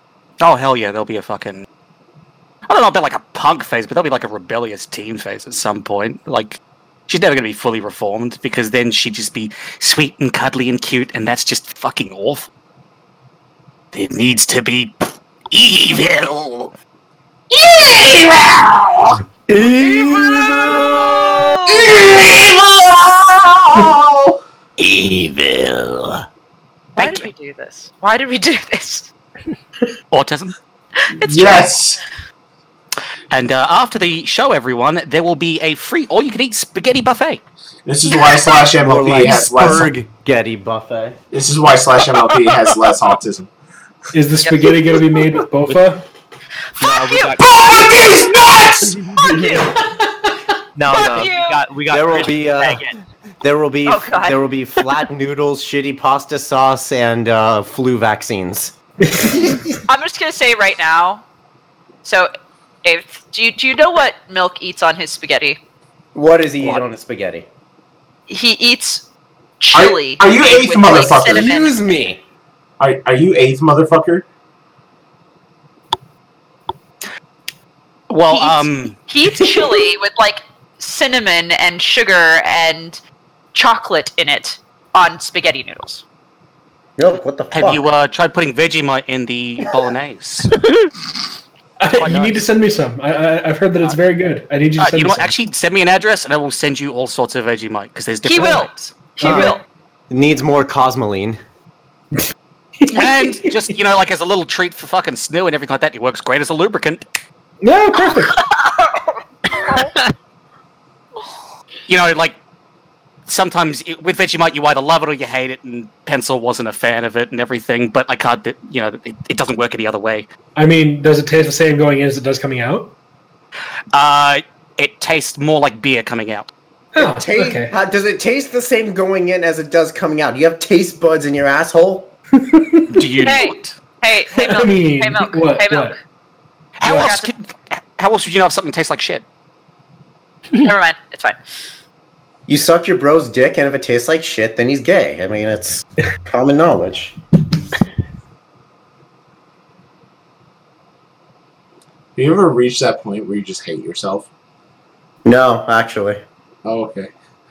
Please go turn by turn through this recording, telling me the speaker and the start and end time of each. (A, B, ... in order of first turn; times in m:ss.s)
0:00.4-0:01.7 A
0:02.7-0:12.5 A
0:13.9-0:15.0 A
0:15.5-0:16.7 A
0:17.5-0:19.2 B
0:19.5-0:21.3 C
0:19.8-0:21.9 D
0:21.7-0:24.4 B
0:27.0-0:27.3 A
0:27.0-0:29.1 D
0:30.1-0:30.6 A
0:31.0-0:31.7 D
0:31.2-0:32.0 B
0:33.3-0:37.4 A
0:37.9-0:39.9 B
0:38.8-0:41.2 C
0:41.3-0:43.5 B
0:44.1-0:46.1 E
0:46.8-0:47.4 D
0:46.8-0:48.2 F
0:47.4-0:49.0 B
0:48.9-0:49.5 F
0:49.2-0:49.8 D
0:50.8-0:53.0 F
0:50.9-0:51.6 D
0:51.9-0:52.8 C
0:53.4-0:59.6 C
0:53.9-0:54.4 D
0:59.9-1:01.2 D
1:02.0-1:02.3 D
1:02.8-1:05.6 D
1:06.1-1:07.5 C
1:08.3-1:09.1 D
1:09.6-1:11.7 D
1:09.7-1:11.6 B
1:11.0-1:12.2 C
1:12.8-1:14.3 B
1:18.1-1:19.0 A
1:18.3-1:23.0 D
1:23.5-1:26.0 D
1:27.0-1:27.9 C
1:27.5-1:30.6 A
1:31.8-1:35.3 E
1:31.9-1:32.4 A
1:34.8-1:38.9 A
1:38.2-1:39.6 D
1:39.2-1:39.6 E
1:39.2-1:39.6 C
1:40.1-1:41.4 C
1:42.8-1:43.5 E
1:42.9-1:47.0 A
1:47.6-1:48.4 E
1:51.9-1:52.4 A
1:53.3-2:00.3 A
2:00.6-2:02.9 E
2:03.9-2:06.5 A
2:06.9-2:07.7 E
2:07.0-2:12.1 C
2:12.4-2:13.1 E
2:12.9-2:13.8 A
2:13.2-2:16.0 D
2:14.3-2:16.0 E
2:16.8-2:19.2 A
2:16.8-2:17.3 D
2:20.6-2:21.4 D
2:22.5-2:27.2 C
2:32.2-2:34.3 B
2:35.2-2:36.2 C
2:36.6-2:37.1 B